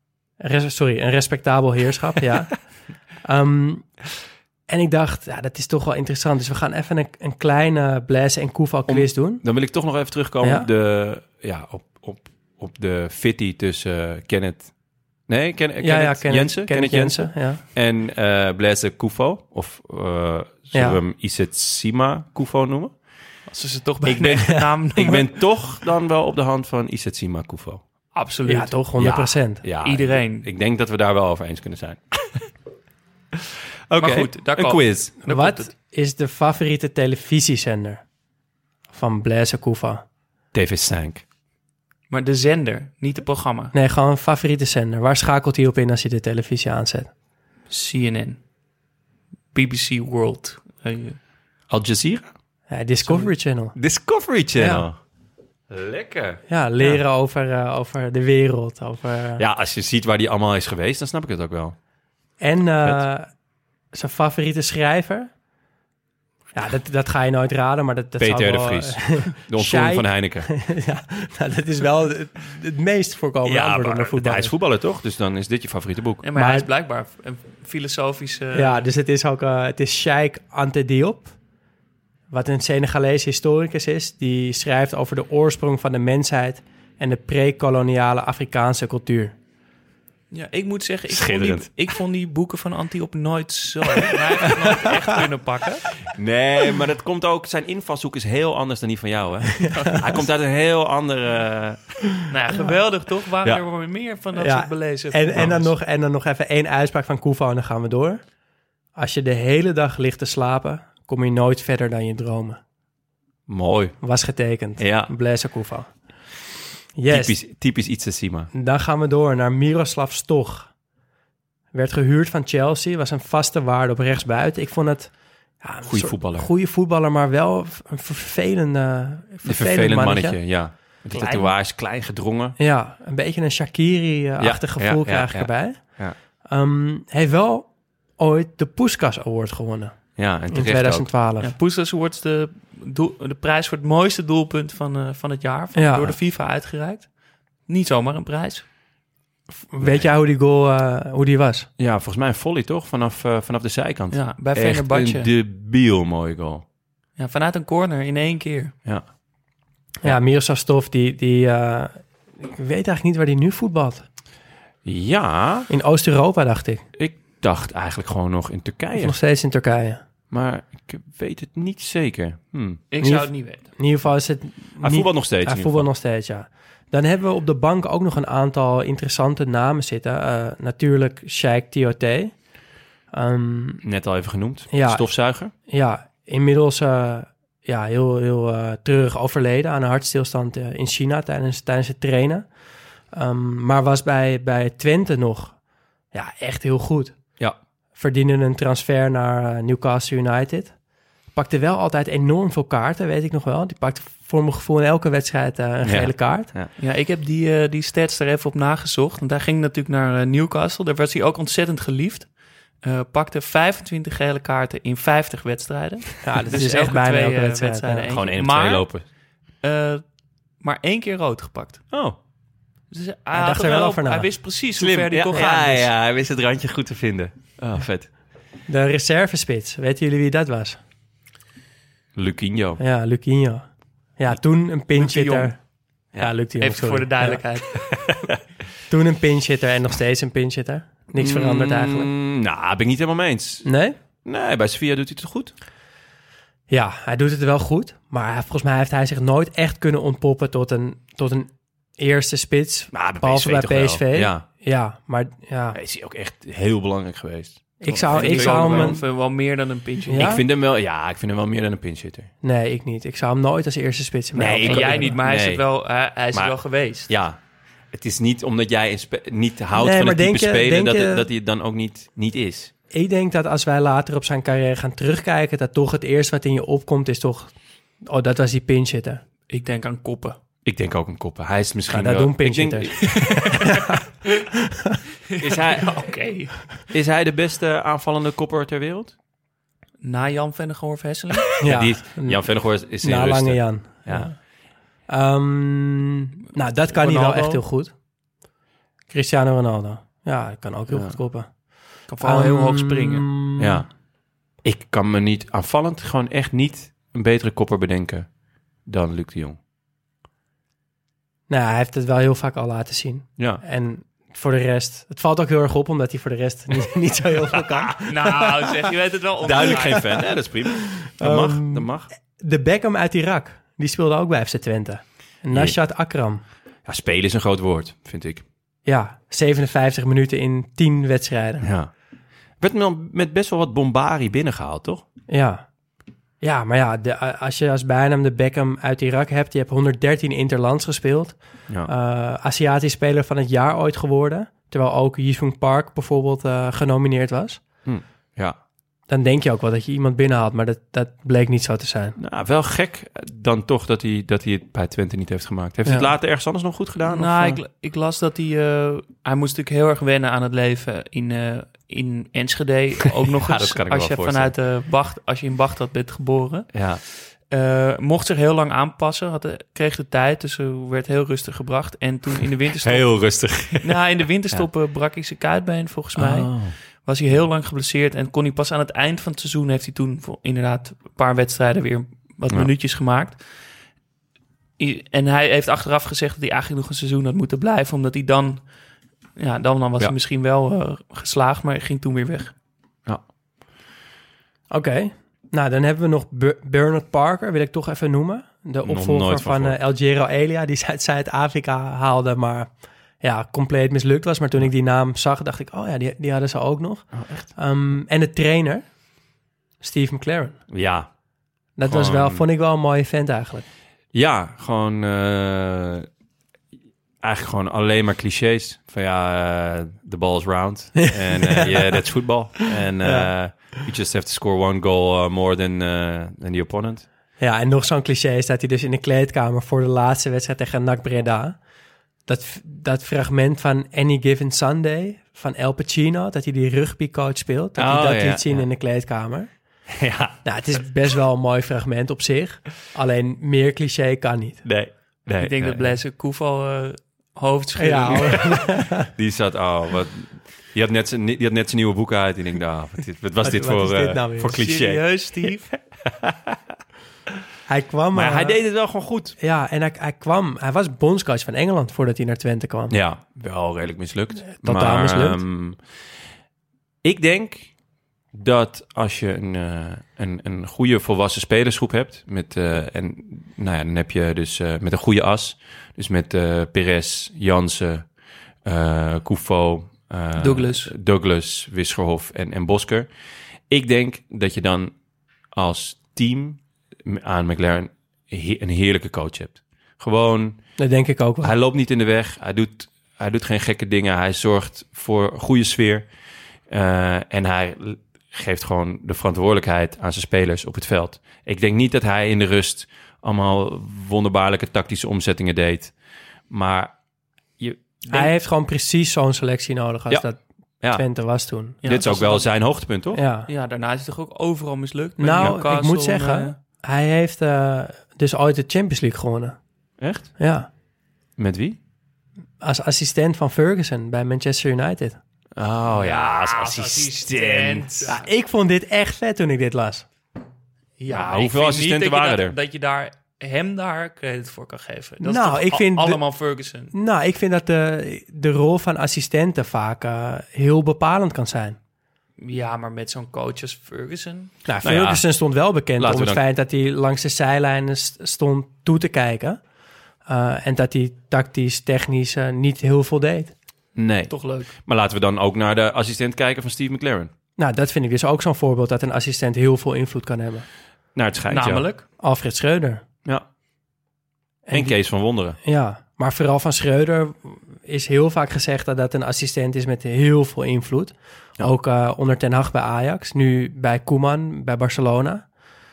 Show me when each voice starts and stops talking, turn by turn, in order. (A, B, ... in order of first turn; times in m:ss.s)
0:00.4-0:02.6 A
0:03.2-0:03.9 A
0:04.7-0:09.4 A
0:08.9-0:14.7 B
0:10.4-0:10.7 A
0:15.3-0:22.9 B
0:15.8-0:17.6 A
0:20.7-0:21.0 A
0:23.5-0:25.3 C
0:24.0-0:27.8 B
0:28.1-0:28.8 C
0:28.5-0:29.6 A
0:29.0-0:32.4 B
0:29.8-0:30.5 C
0:33.9-0:35.1 B
0:34.0-0:35.7 C
0:35.3-0:38.0 A
0:38.9-0:40.0 A
0:40.5-0:41.2 B
0:42.1-0:43.7 C
0:43.7-0:47.1 A
0:47.7-0:48.4 C
0:49.5-0:51.2 C
0:51.7-0:52.2 B
0:52.7-0:53.7 A
0:53.8-0:55.0 B
0:54.6-0:54.8 A
0:55.7-0:56.4 B
0:56.5-0:59.4 A
0:59.4-1:01.8 B
1:02.4-1:03.3 A
1:03.9-1:05.3 A
1:06.5-1:14.5 A
1:08.2-1:10.5 B
1:13.4-1:16.2 B
1:16.2-1:18.8 C
1:16.4-1:16.7 A
1:18.5-1:21.3 A
1:22.3-1:29.3 A
1:30.3-1:35.9 C
1:31.1-1:31.7 B
1:34.0-1:34.8 B
1:36.0-1:41.9 B
1:39.7-1:40.0 C
1:42.3-1:45.7 C
1:44.3-1:48.2 A
1:49.0-1:52.6 A
1:53.5-1:54.0 B
1:54.0-1:55.9 A
1:54.8-1:55.1 B
1:56.9-1:57.4 A
1:57.1-1:58.5 B
1:58.5-2:00.7 A
2:01.7-2:10.4 A
2:05.8-2:06.5 B
2:09.4-2:12.6 B
2:11.2-2:11.4 C
2:12.6-2:15.8 A
2:14.4-2:16.2 B
2:16.4-2:20.0 A
2:20.2-2:21.1 B
2:20.5-2:21.5 A
2:21.4-2:27.1 C
2:25.7-2:26.1 A
2:27.7-2:28.6 C
2:29.7-2:31.7 A
2:29.8-2:30.1 B
2:31.8-2:36.6 B
2:34.1-2:35.3 C
2:37.2-2:38.7 C
2:40.0-2:44.0 A
2:44.8-2:45.7 B
2:45.7-2:46.8 A
2:47.0-2:49.2 B
2:48.9-2:50.0 A
2:50.3-2:52.8 B
2:52.9-2:53.6 C
2:53.0-3:02.3 A
2:54.8-2:55.9 B
3:03.1-3:03.8 A
3:03.8-3:05.5 B
3:04.7-3:05.1 A
3:05.7-3:12.5 A
3:13.1-3:15.6 A
3:16.1-3:17.2 A
3:17.9-3:20.7 A
3:21.3-3:26.5 A
3:25.8-3:26.7 B
3:26.8-3:32.3 C
3:32.8-3:38.9 C
3:36.2-3:38.1 A
3:38.1-3:39.0 B
3:39.6-3:40.0 C
3:40.6-3:41.8 C
3:41.9-3:42.2 B
3:42.9-3:45.9 C
3:43.3-3:44.3 A
3:44.8-3:48.1 B
3:48.7-3:50.8 A
3:52.1-3:52.8 B
3:52.8-3:55.6 A
3:55.0-3:55.5 C
3:56.2-3:57.4 A
3:56.6-3:57.8 C
3:57.8-3:58.4 B
3:58.9-4:02.1 A
4:01.2-4:03.7 B
4:03.6-4:04.0 A
4:04.2-4:05.5 B
4:06.7-4:15.8 A
4:12.9-4:14.4 B
4:15.7-4:19.0 B
4:17.8-4:19.0 A
4:18.0-4:20.3 C
4:20.1-4:20.4 A
4:20.1-4:22.3 B
4:22.4-4:25.1 A
4:24.3-4:25.6 B
4:24.6-4:27.1 C
4:27.1-4:27.4 B
4:27.9-4:32.7 B
4:29.7-4:31.3 A
4:32.9-4:37.5 A
4:38.0-4:39.2 A
4:39.5-4:40.4 C
4:40.6-4:43.8 B
4:41.9-4:44.0 A
4:44.7-4:45.0 A
4:45.4-4:46.0 B
4:45.4-4:46.7 C
4:46.9-4:49.1 B
4:50.0-4:51.6 C
4:51.5-4:54.3 B
4:51.6-4:52.4 A
4:53.0-4:54.4 A
4:55.1-4:57.9 A
4:56.9-4:57.6 C
4:59.1-5:01.5 A
5:00.9-5:01.2 B
5:02.1-5:03.3 C
5:02.2-5:03.8 A
5:03.6-5:03.9 B
5:04.6-5:08.3 B
5:08.8-5:09.6 B
5:11.5-5:18.7 A
5:13.4-5:13.6 B
5:17.5-5:17.9 B
5:18.0-5:20.2 C
5:19.4-5:22.1 B
5:21.0-5:26.4 A
5:25.5-5:25.8 B
5:26.8-5:28.4 B
5:28.8-5:31.7 A
5:31.6-5:31.9 B
5:32.6-5:35.0 B
5:35.3-5:35.6 A
5:36.4-5:47.6 A
5:47.8-5:48.6 B
5:49.1-5:52.2 A
5:52.2-5:57.6 B
5:57.0-6:23.4 C
6:03.4-6:04.5 B
6:06.7-6:07.0 B
6:12.8-6:14.0 B
6:16.2-6:16.7 B
6:24.8-6:28.6 C
6:29.4-6:32.5 C
6:34.7-6:48.8 A
6:38.8-6:39.8 B
6:47.1-6:47.5 B
6:49.8-6:50.6 A
6:50.7-6:51.1 B
6:51.8-6:53.6 A
6:51.8-6:52.4 B
6:54.1-6:56.1 B
6:57.2-7:07.0 B
7:01.0-7:02.0 A
7:03.0-7:03.3 A
7:07.4-7:11.6 A
7:12.3-7:19.5 A
7:17.8-7:18.6 B
7:19.9-7:20.4 B
7:20.4-7:24.6 A
7:24.6-7:26.0 B
7:25.4-7:28.5 C
7:27.8-7:29.1 A
7:29.0-7:35.5 B
7:33.4-7:34.6 A
7:34.5-7:35.7 C
7:36.0-7:36.6 B
7:37.7-7:38.6 A
7:38.1-7:39.3 B
7:39.4-7:42.9 A
7:42.9-7:45.8 B
7:44.5-7:45.4 A
7:47.0-7:47.7 B
7:48.3-7:58.1 B
7:58.6-8:03.1 B
8:00.4-8:00.9 C
8:03.7-8:04.9 B
8:05.5-8:10.6 B
8:10.8-8:11.5 A
8:11.4-8:16.1 B
8:16.7-8:25.9 B
8:26.5-8:26.9 B
8:27.6-8:28.3 B
8:28.1-8:30.4 A
8:30.9-8:31.8 A
8:31.8-8:32.5 C
8:31.8-8:33.2 B
8:33.1-8:33.5 A
8:33.5-8:36.5 C
8:35.2-8:39.6 A
8:40.0-8:40.3 B
8:40.4-8:40.7 A
8:41.4-8:41.8 B
8:42.6-8:45.2 A
8:45.6-8:48.2 B
8:45.9-8:48.2 C
8:48.1-8:50.0 A
8:51.0-8:56.9 C
8:51.1-8:52.5 B
8:55.2-8:56.2 A
8:56.9-9:01.8 A
9:02.4-9:04.5 C
9:04.6-9:09.6 A
9:04.8-9:05.2 B
9:06.0-9:06.4 B
9:10.3-9:13.5 A
9:14.0-9:17.3 B
9:14.3-9:14.7 C
9:17.6-9:20.6 A
9:21.1-9:21.8 B
9:21.5-9:22.0 C
9:22.2-9:23.0 A
9:24.6-9:25.0 A
9:24.7-9:25.6 B
9:25.6-9:35.4 A